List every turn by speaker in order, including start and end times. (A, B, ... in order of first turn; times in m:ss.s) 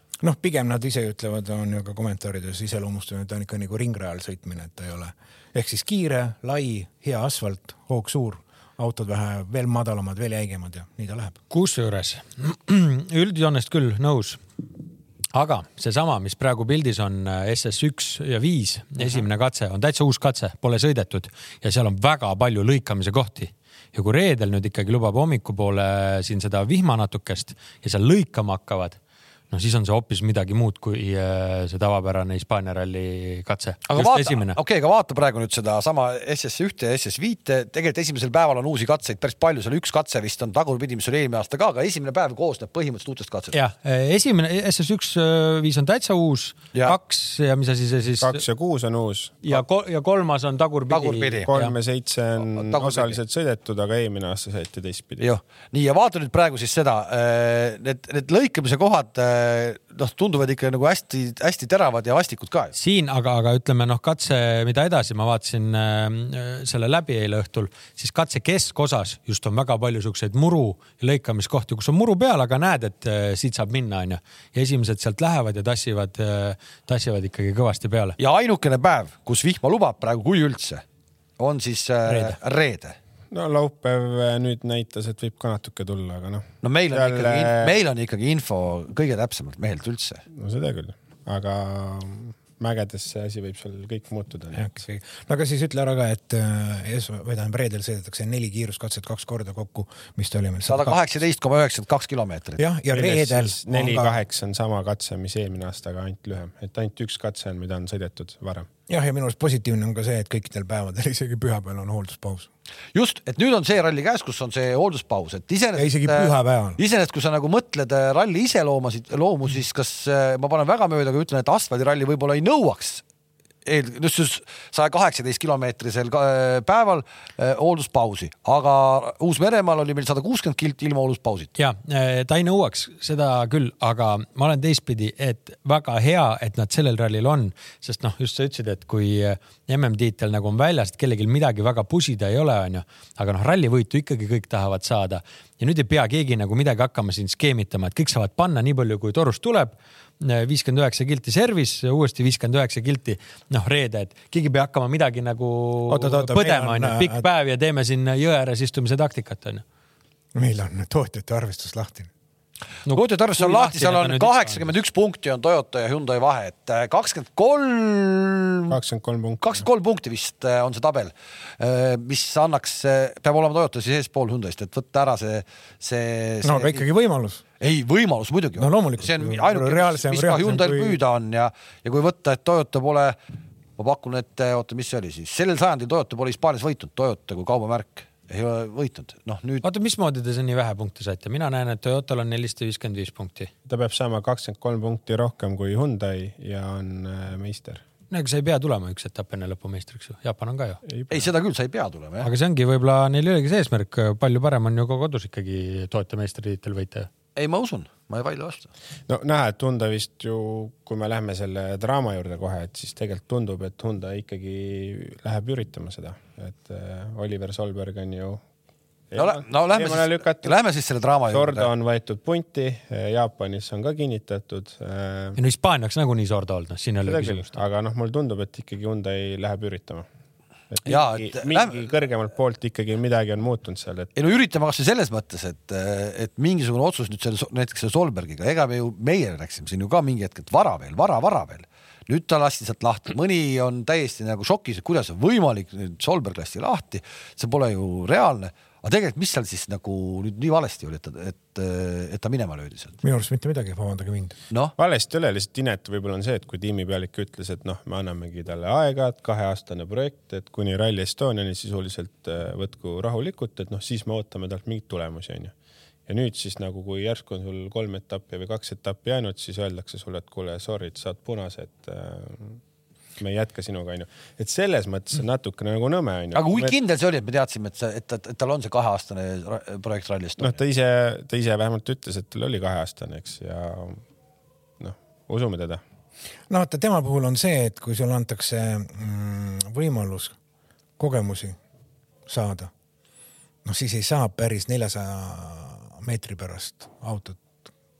0:00.2-0:11.4 A
0:11.5-0:14.4 B
0:15.3-0:29.0 B
0:29.5-0:34.6 B
0:33.9-0:43.6 C
0:43.5-0:48.4 B
0:48.2-0:49.4 D
0:49.4-0:51.8 B
0:50.9-0:51.5 C
0:51.5-0:55.3 D
0:52.5-0:53.2 C
0:55.2-1:02.8 C
1:02.8-1:18.2 B
1:18.2-1:20.8 C
1:21.4-1:23.0 C
1:22.1-1:22.4 B
1:23.3-1:27.8 D
1:26.6-1:30.2 C
1:30.3-1:34.7 D
1:34.5-1:41.0 A
1:40.6-1:42.6 C
1:42.6-1:44.2 A
1:42.9-1:48.7 D
1:48.9-1:52.5 A
1:52.9-2:03.0 C
1:55.8-1:56.8 A
2:03.6-2:11.6 C
2:11.6-2:39.6 B
2:35.9-2:37.2 A
2:40.4-2:42.1 A
2:42.9-2:44.7 B
2:42.9-2:48.8 C
2:48.7-2:49.6 D
2:49.4-2:56.8 C
2:56.4-2:57.4 A
2:57.6-3:03.2 C
2:58.6-3:01.0 A
3:03.8-3:09.7 C
3:09.6-3:13.5 B
3:13.7-3:17.8 D
3:18.1-3:20.8 B
3:20.9-3:21.3 D
3:21.1-3:22.3 C
3:22.2-3:27.1 B
3:27.4-3:28.7 C
3:29.1-3:38.4 D
3:39.1-3:40.6 D
3:39.2-3:41.7 C
3:41.3-3:45.4 D
3:45.4-3:47.6 B
3:47.1-3:50.1 D
3:50.7-3:54.2 D
3:50.9-3:51.8 C
3:54.2-4:13.0 C
4:13.0-4:14.4 A
4:14.8-4:25.5 D
4:26.1-4:32.6 D
4:33.2-4:36.7 D
4:36.3-4:40.6 C
4:40.4-4:44.0 D
4:44.8-4:45.8 D
4:46.5-4:50.4 A
4:51.0-4:51.6 A
4:52.3-4:52.7 A
4:53.6-4:57.4 A